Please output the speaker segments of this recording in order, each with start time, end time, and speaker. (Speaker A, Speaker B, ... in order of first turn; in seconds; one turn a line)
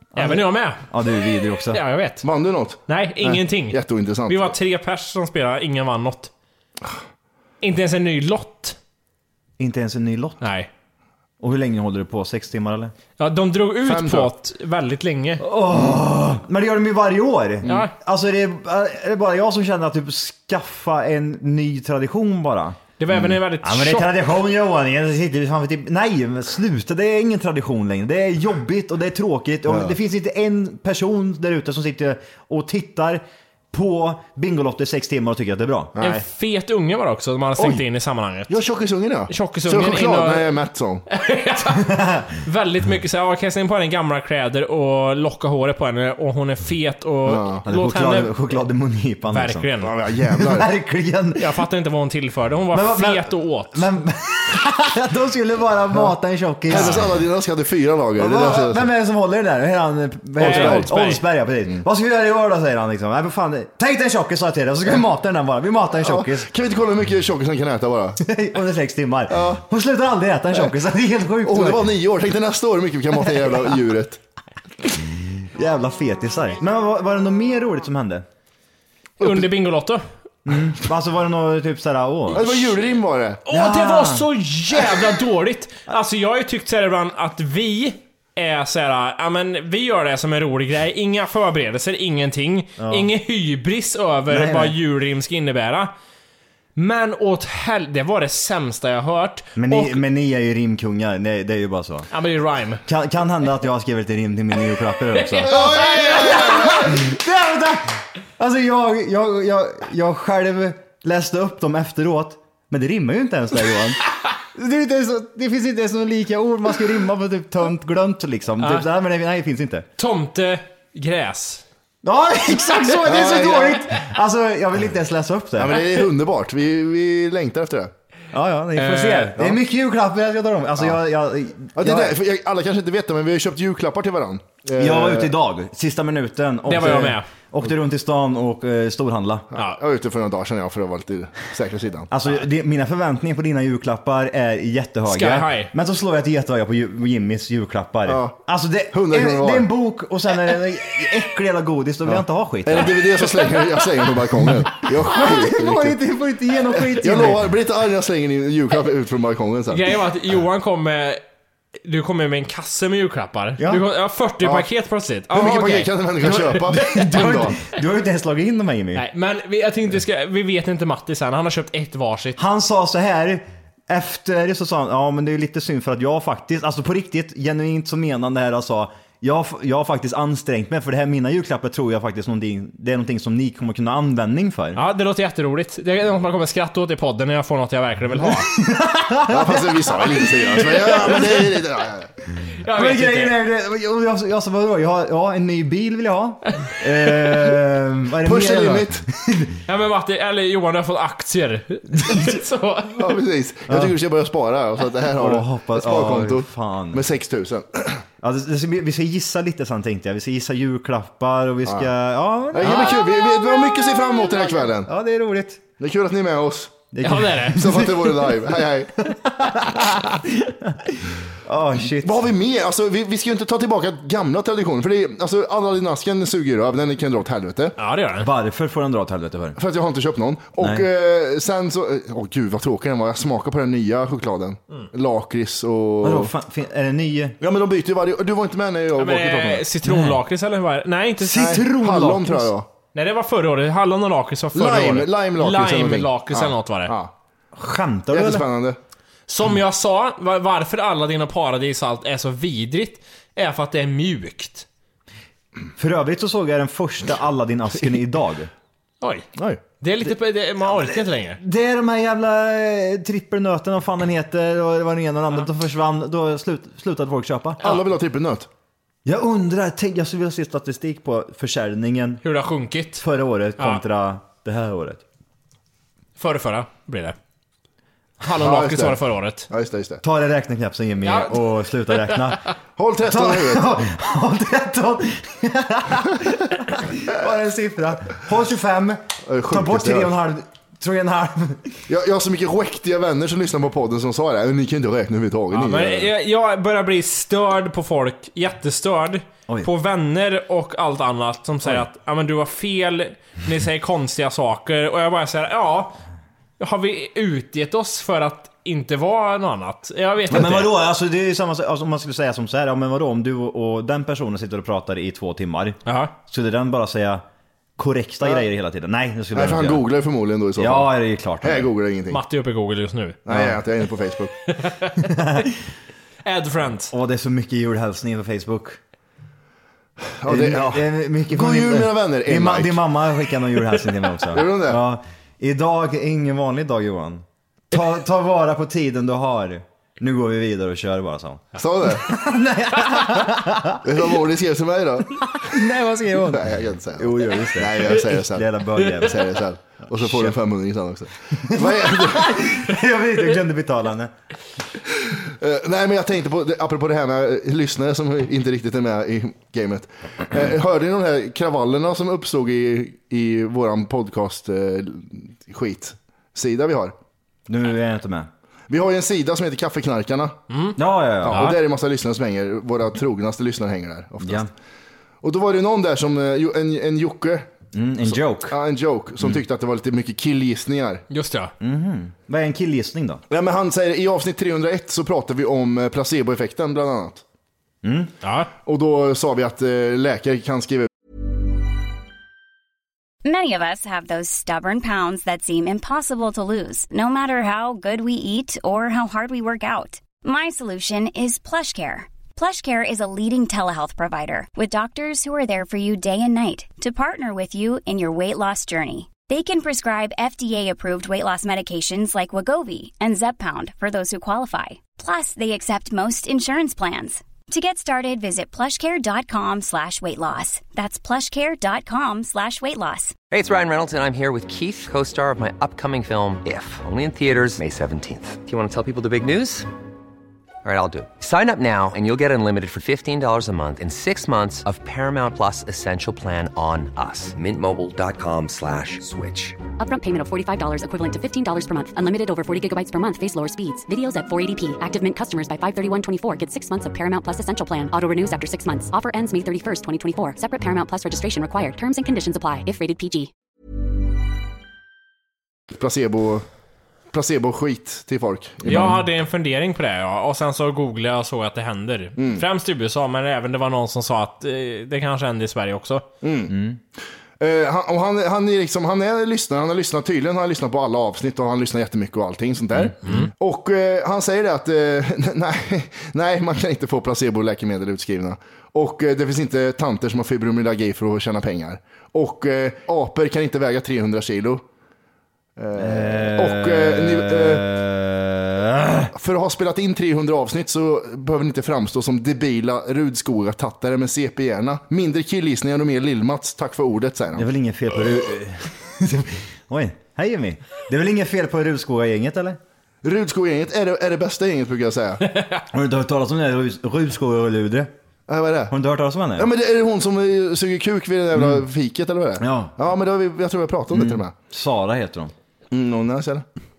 Speaker A: 0.1-1.8
Speaker B: 0.1-0.8
Speaker B: 1.7-2.2
Speaker C: 2.2-4.5
Speaker B: 2.9-6.3
Speaker B: 7.6-8.8
Speaker A: 9.6-10.4
Speaker B: 10.4-10.7
Speaker A: 11.4-12.9
Speaker B: 13.2-15.4
Speaker C: 13.8-14.3
Speaker A: 15.4-35.9
Speaker B: 17.6-17.9
Speaker B: 23.0-24.1
Speaker C: 29.7-29.9
Speaker C: 35.9-36.2
Speaker B: 36.0-38.6
Speaker C: 38.5-41.0
Speaker B: 39.3-40.5
Speaker B: 41.1-48.3
Speaker A: 41.9-42.2
Speaker C: 47.2-47.6
Speaker A: 47.6-49.7
Speaker B: 49.3-49.9
Speaker C: 49.8-50.7
Speaker A: 50.3-51.5
Speaker B: 51.4-53.9
Speaker A: 52.7-57.1
Speaker C: 56.7-58.9
Speaker B: 56.7-57.1
Speaker A: 58.2-66.5
Speaker C: 60.4-60.9
Speaker B: 60.4-61.2
Speaker C: 66.0-68.2
Speaker A: 68.2-71.9
Speaker C: 69.3-69.6
Speaker C: 71.4-74.2
Speaker A: 75.5-78.2
Speaker B: 79.2-80.0
Speaker A: 80.5-82.4
Speaker C: 82.3-83.4
Speaker B: 83.5-95.9
Speaker A: 83.5-84.3
Speaker A: 92.8-93.1
Speaker A: 94.3-94.8
Speaker B: 96.7-100.0
Speaker A: 99.5-102.1
Speaker B: 102.1-102.8
Speaker A: 102.8-119.8
Speaker B: 105.1-107.0
Speaker C: 105.5-106.9
Speaker B: 118.6-118.8
Speaker B: 120.0-121.6
Speaker A: 122.0-125.8
Speaker C: 123.0-123.8
Speaker C: 125.6-127.9
Speaker A: 128.3-132.1
Speaker B: 128.8-129.3
Speaker C: 131.8-135.3
Speaker A: 134.8-139.4
Speaker B: 136.7-137.3
Speaker C: 139.5-142.1
Speaker A: 142.1-153.0
Speaker B: 145.1-145.7
Speaker C: 148.1-148.4
Speaker C: 148.9-149.7
Speaker C: 152.1-156.0
Speaker A: 155.0-157.4
Speaker C: 156.8-159.8
Speaker B: 159.7-161.2
Speaker B: 161.8-165.9
Speaker C: 164.4-164.7
Speaker C: 165.3-167.6
Speaker A: 166.2-169.0
Speaker B: 168.9-172.4
Speaker A: 172.4-184.8
Speaker B: 184.7-188.5
Speaker A: 188.5-189.7
Speaker C: 189.3-192.1
Speaker B: 190.7-191.3
Speaker B: 192.6-193.4
Speaker A: 192.7-199.5
Speaker C: 198.2-199.0
Speaker B: 199.7-203.2
Speaker C: 202.9-208.0
Speaker A: 205.2-207.0
Speaker A: 208.2-213.0
Speaker C: 212.5-214.9
Speaker A: 214.8-215.6
Speaker C: 215.8-216.8
Speaker A: 216.9-218.3
Speaker B: 217.0-217.7
Speaker C: 217.5-219.0
Speaker A: 219.0-222.2
Speaker C: 221.8-227.8
Speaker B: 227.8-228.3
Speaker A: 228.2-229.6
Speaker C: 229.6-236.3
Speaker A: 230.6-230.8
Speaker A: 236.0-237.4
Speaker C: 237.4-239.7
Speaker B: 238.9-241.6
Speaker A: 239.8-240.2
Speaker A: 241.2-242.5
Speaker C: 241.3-242.7
Speaker B: 242.9-246.9
Speaker C: 244.5-247.1
Speaker A: 247.6-248.4
Speaker C: 248.1-248.8
Speaker B: 249.3-254.7
Speaker A: 255.8-258.5
Speaker B: 259.0-259.3
Speaker B: 259.8-261.4
Speaker A: 261.4-267.6
Speaker C: 267.6-268.5
Speaker A: 269.0-272.2
Speaker B: 272.2-273.0
Speaker A: 273.0-275.0
Speaker B: 276.2-277.2
Speaker B: 278.2-279.5
Speaker C: 278.4-280.0
Speaker A: 280.0-282.4
Speaker B: 281.0-282.3
Speaker C: 282.8-283.8
Speaker A: 283.1-291.8
Speaker C: 289.2-290.1
Speaker C: 291.9-296.1
Speaker B: 295.5-306.0
Speaker B: 306.6-310.7
Speaker A: 310.3-317.2
Speaker B: 315.8-316.1
Speaker A: 317.8-319.8
Speaker C: 319.3-322.2
Speaker A: 320.6-321.7
Speaker B: 322.1-323.2
Speaker C: 323.2-324.3
Speaker A: 323.3-323.6
Speaker B: 324.5-324.9
Speaker A: 325.0-325.5
Speaker B: 326.2-326.9
Speaker A: 326.9-328.8
Speaker C: 330.2-332.8
Speaker A: 330.3-341.4
Speaker C: 334.3-334.8
Speaker C: 341.6-342.1
Speaker A: 342.0-343.8
Speaker C: 343.8-345.2
Speaker A: 345.4-349.2
Speaker C: 346.3-352.4
Speaker A: 349.9-350.3
Speaker A: 351.4-354.1
Speaker C: 355.0-366.9
Speaker A: 367.5-368.3
Speaker C: 368.7-370.4
Speaker B: 370.5-370.8
Speaker A: 370.8-371.5
Speaker C: 371.2-374.5
Speaker B: 371.3-371.6
Speaker A: 374.2-374.5
Speaker C: 375.2-377.5
Speaker A: 377.7-378.6
Speaker C: 378.1-381.0
Speaker B: 381.1-381.5
Speaker A: 381.6-383.2
Speaker C: 383.3-387.2
Speaker A: 387.8-388.1
Speaker B: 388.2-388.5
Speaker C: 388.6-390.9
Speaker D: 393.2-423.2
Speaker E: 423.3-429.7
Speaker E: 430.6-439.6
Speaker F: 439.8-453.3
Speaker C: 455.7-456.4
Speaker C: 457.1-459.0
Speaker B: 458.6-466.1
Speaker A: 458.7-459.0
Speaker C: 462.2-462.4
Speaker C: 466.2-466.5
Speaker A: 466.5-466.8
Speaker C: 467.4-484.6
Speaker A: 472.8-473.2
Speaker C: 485.6-487.6
Speaker A: 485.8-489.1
Speaker C: 489.1-497.5
Speaker A: 497.3-502.6
Speaker C: 503.0-505.2
Speaker A: 505.7-507.9
Speaker C: 508.3-508.7
Speaker A: 508.7-509.5
Speaker C: 509.4-514.3
Speaker A: 511.4-511.6
Speaker A: 512.4-512.7
Speaker A: 513.9-515.3
Speaker C: 515.7-516.4